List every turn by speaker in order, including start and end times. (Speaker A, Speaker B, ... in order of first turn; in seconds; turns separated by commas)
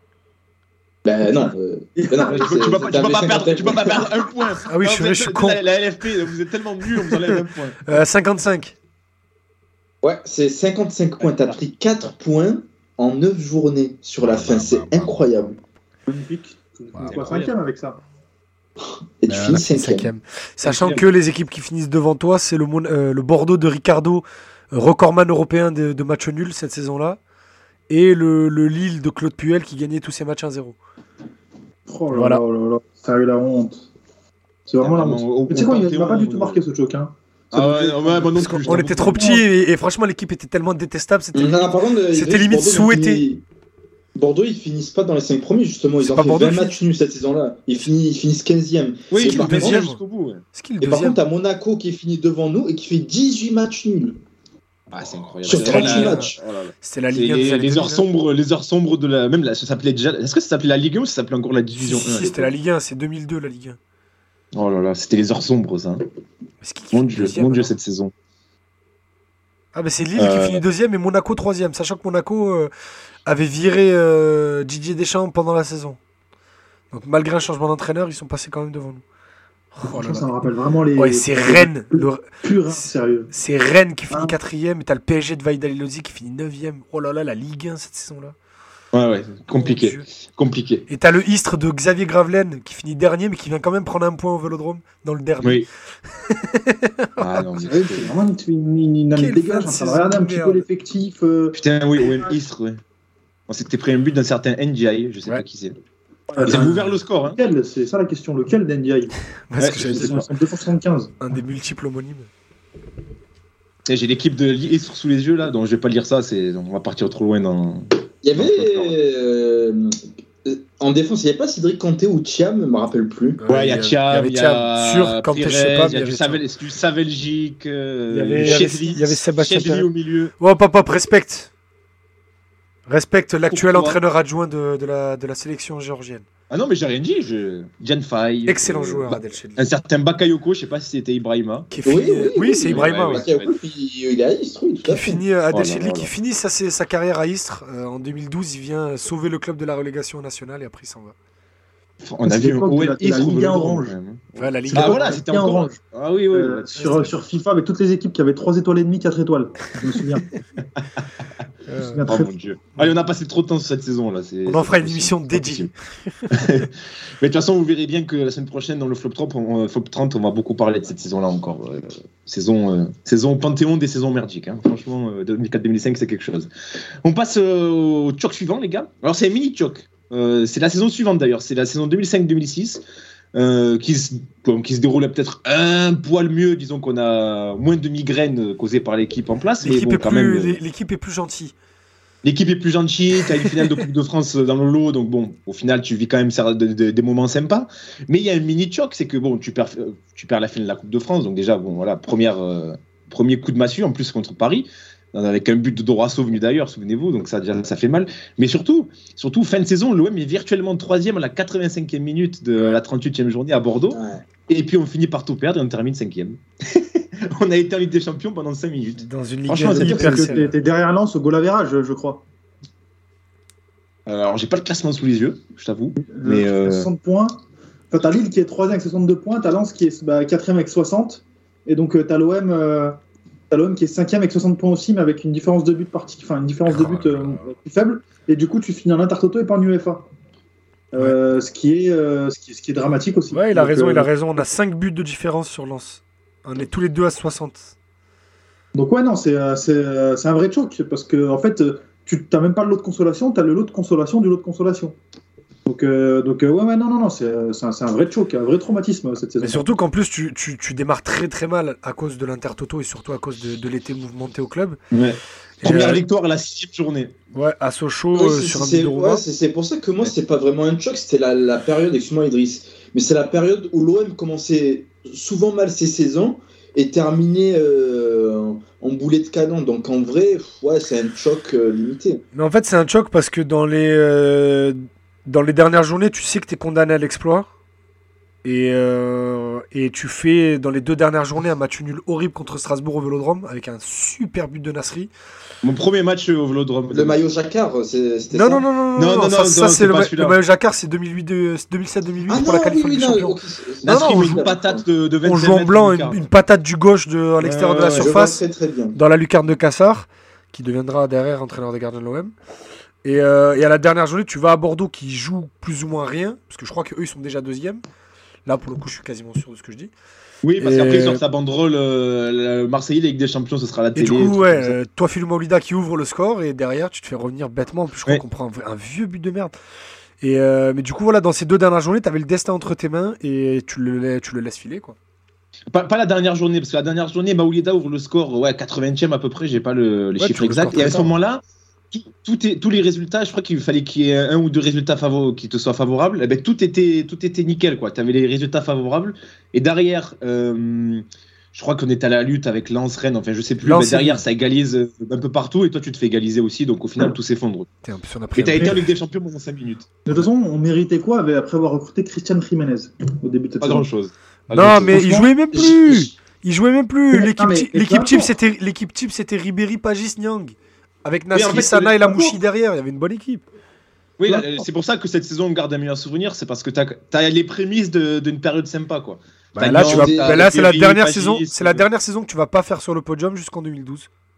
Speaker A: 1.0-4.1, Speaker B: 2.0-8.0, Speaker C: 4.7-5.6, Speaker C: 7.0-8.7, Speaker A: 10.0-15.6, Speaker B: 11.2-11.6, Speaker C: 14.3-15.2, Speaker D: 16.1-18.0, Speaker C: 16.9-17.5, Speaker B: 17.1-17.5, Speaker A: 19.2-20.1, Speaker C: 19.3-27.2, Speaker B: 20.6-21.1, Speaker C: 27.9-30.8, Speaker D: 31.9-33.9, Speaker C: 32.1-32.4, Speaker D: 34.7-39.4, Speaker B: 34.8-36.6, Speaker B: 37.5-39.3, Speaker C: 38.4-43.2, Speaker A: 41.3-43.4, Speaker A: 44.1-49.9, Speaker C: 46.0-46.8, Speaker B: 49.1-50.4, Speaker C: 49.2-50.0, Speaker C: 50.5-51.2, Speaker A: 50.8-54.2, Speaker B: 54.9-62.5, Speaker C: 55.4-58.0, Speaker A: 55.4-56.3, Speaker C: 61.8-63.8, Speaker B: 64.5-66.0, Speaker C: 66.6-67.7, Speaker B: 66.9-68.1, Speaker C: 69.7-72.7, Speaker B: 70.2-70.6, Speaker C: 73.2-76.0, Speaker C: 76.9-79.0, Speaker C: 79.7-80.3, Speaker D: 79.8-83.3, Speaker C: 81.0-88.3, Speaker D: 84.1-84.3, Speaker B: 88.9-90.8, Speaker C: 89.5-90.0, Speaker C: 90.9-97.7, Speaker B: 95.4-95.7, Speaker B: 97.2-98.1, Speaker D: 97.7-101.6, Speaker C: 99.1-100.6, Speaker B: 101.5-102.8, Speaker B: 103.5-105.8, Speaker D: 106.3-109.1, Speaker C: 106.4-106.7, Speaker B: 106.4-107.4, Speaker C: 109.5-110.3, Speaker B: 109.6-110.2, Speaker D: 109.9-111.1, Speaker C: 111.2-112.3, Speaker B: 113.8-119.0, Speaker A: 118.2-123.4, Speaker C: 123.4-126.4, Speaker B: 123.5-130.3, Speaker C: 128.1-131.5, Speaker C: 132.9-136.2, Speaker B: 133.5-134.0, Speaker B: 136.5-141.7, Speaker C: 138.5-139.7, Speaker C: 141.7-143.3, Speaker A: 141.8-145.2, Speaker B: 142.6-143.5, Speaker C: 144.8-151.1, Speaker B: 145.5-146.1, Speaker B: 152.0-156.9, Speaker D: 152.2-153.9, Speaker C: 154.3-155.2, Speaker D: 154.6-155.8, Speaker D: 156.3-160.2, Speaker C: 156.7-157.1, Speaker B: 160.6-161.1, Speaker C: 161.7-162.1, Speaker D: 161.8-162.3, Speaker B: 162.1-165.7, Speaker C: 164.4-166.2, Speaker B: 166.3-176.5, Speaker B: 177.0-182.8, Speaker B: 183.3-190.6, Speaker C: 189.6-191.5, Speaker B: 192.2-220.5, Speaker A: 213.9-214.2, Speaker C: 219.0-220.5, Speaker D: 219.7-222.2, Speaker B: 224.1-226.9, Speaker D: 226.0-227.4, Speaker D: 227.9-233.0, Speaker D: 233.5-240.1, Speaker C: 236.7-237.4, Speaker D: 240.9-244.1, Speaker C: 240.9-241.2, Speaker C: 243.3-247.7, Speaker D: 248.7-254.9, Speaker D: 255.7-259.7, Speaker C: 259.4-264.8, Speaker B: 264.9-267.1, Speaker C: 265.6-266.0, Speaker C: 267.3-269.2, Speaker A: 268.1-282.2, Speaker C: 282.3-287.5, Speaker C: 288.4-295.1, Speaker B: 295.6-297.2, Speaker A: 296.9-298.6, Speaker C: 298.3-304.4, Speaker B: 299.0-300.4, Speaker A: 302.3-304.8, Speaker B: 303.8-306.2, Speaker C: 305.2-308.4, Speaker B: 307.4-308.1, Speaker A: 307.9-309.0, Speaker C: 308.9-312.3, Speaker C: 313.0-317.8, Speaker C: 318.4-319.9, Speaker B: 320.4-324.8, Speaker C: 320.6-321.2, Speaker C: 323.9-329.5, Speaker C: 330.2-334.9, Speaker B: 335.7-357.7, Speaker C: 340.2-341.1, Speaker C: 353.6-354.2, Speaker C: 357.8-358.8, Speaker B: 358.4-359.9, Speaker D: 360.1-363.9, Speaker B: 363.6-365.1, Speaker C: 364.5-373.4, Speaker D: 364.6-365.9, Speaker D: 367.1-368.3, Speaker B: 371.3-372.4, Speaker B: 374.2-381.8, Speaker D: 374.3-374.6, Speaker C: 379.5-384.1, Speaker A: 379.7-380.4